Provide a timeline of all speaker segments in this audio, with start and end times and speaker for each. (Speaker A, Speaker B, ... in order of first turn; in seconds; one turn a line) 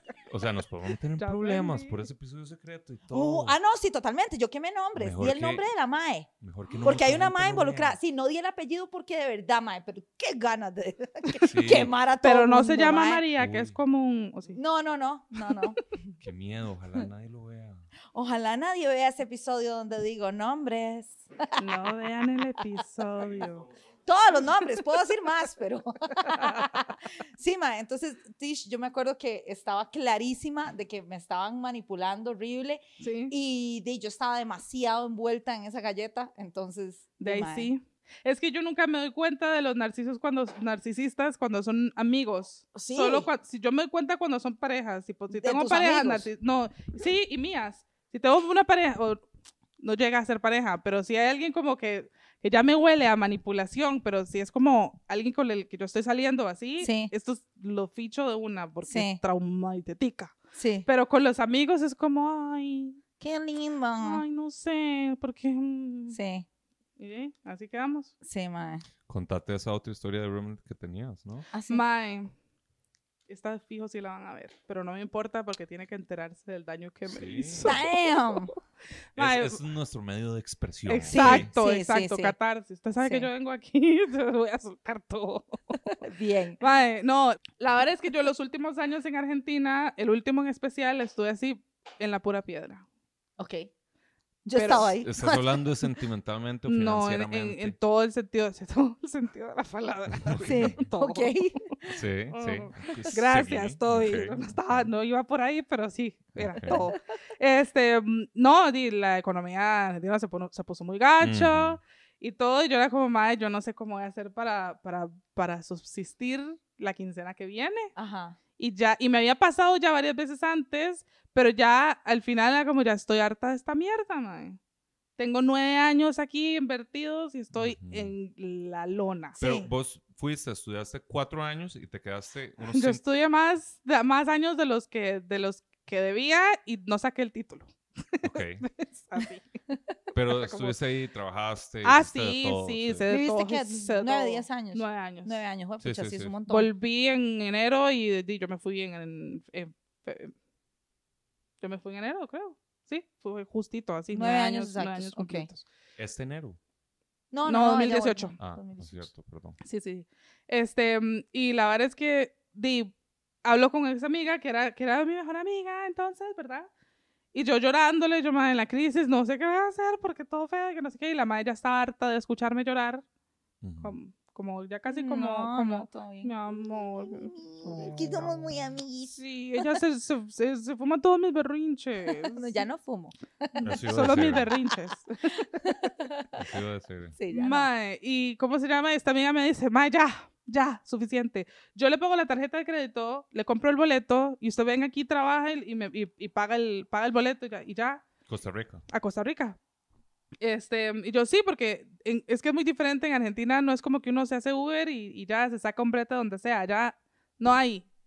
Speaker A: 0.3-3.6
Speaker B: 1.2-2.0
Speaker C: 3.1-6.3
Speaker A: 5.0-5.7
Speaker A: 6.4-8.0
Speaker C: 6.8-13.3
Speaker A: 11.4-11.9
Speaker B: 12.2-14.6
Speaker A: 13.3-13.8
Speaker C: 14.5-15.8
Speaker A: 16.2-17.9
Speaker C: 18.1-21.8
Speaker B: 21.6-23.7
Speaker C: 24.1-37.7
Speaker B: 26.2-26.7
Speaker B: 33.0-33.3
Speaker B: 37.2-49.2
Speaker C: 42.7-43.3
Speaker C: 45.3-46.3
Speaker B: 49.8-63.0
Speaker C: 56.8-57.1
Speaker C: 58.9-59.2
Speaker C: 60.5-60.9
Speaker C: 63.2-64.2
Speaker B: 64.0-66.2
Speaker C: 66.1-66.5
Speaker B: 67.0-68.1
Speaker C: 68.2-68.8
Speaker A: 69.1-71.5
Speaker C: 71.5-71.8
Speaker B: 71.7-72.3
Speaker B: 73.3-78.6
Speaker A: 77.0-77.8
Speaker C: 77.6-78.5
Speaker B: 79.1-79.6
Speaker A: 79.2-81.5
Speaker B: 80.9-85.8
Speaker C: 81.1-82.3
Speaker C: 83.0-83.3
Speaker C: 85.9-86.6
Speaker B: 86.6-92.8
Speaker C: 93.4-93.7
Speaker C: 94.4-95.6
Speaker B: 94.5-94.9
Speaker A: 95.0-97.8
Speaker B: 96.7-101.3
Speaker A: 100.2-100.8
Speaker C: 100.4-101.9
Speaker A: 101.9-104.9
Speaker B: 102.3-117.9
Speaker A: 106.3-106.8
Speaker C: 106.7-106.9
Speaker A: 111.2-111.8
Speaker C: 118.0-118.4
Speaker B: 118.6-124.6
Speaker B: 125.2-129.4
Speaker A: 127.5-128.1
Speaker C: 129.4-129.7
Speaker A: 129.4-133.0
Speaker B: 132.7-139.4
Speaker A: 138.2-138.6
Speaker A: 140.1-143.1
Speaker B: 140.3-140.8
Speaker B: 141.8-145.4
Speaker C: 143.1-146.7
Speaker A: 145.8-146.3
Speaker B: 146.5-150.3
Speaker B: 151.6-155.6
Speaker C: 154.1-155.5
Speaker A: 156.0-156.6
Speaker C: 157.3-159.1
Speaker B: 157.4-158.3
Speaker A: 158.4-159.6
Speaker B: 159.6-162.9
Speaker B: 163.4-166.7
Speaker B: 167.3-173.0
Speaker A: 173.6-173.9
Speaker B: 173.8-177.3
Speaker C: 174.9-179.6
Speaker A: 177.7-178.4
Speaker B: 179.1-182.6
Speaker C: 182.1-183.6
Speaker B: 183.6-185.9
Speaker A: 183.6-184.5
Speaker C: 185.6-186.3
Speaker A: 186.3-187.2
Speaker C: 187.1-187.7
Speaker B: 187.3-198.1
Speaker A: 198.3-198.8
Speaker B: 198.9-199.6
Speaker B: 200.4-207.9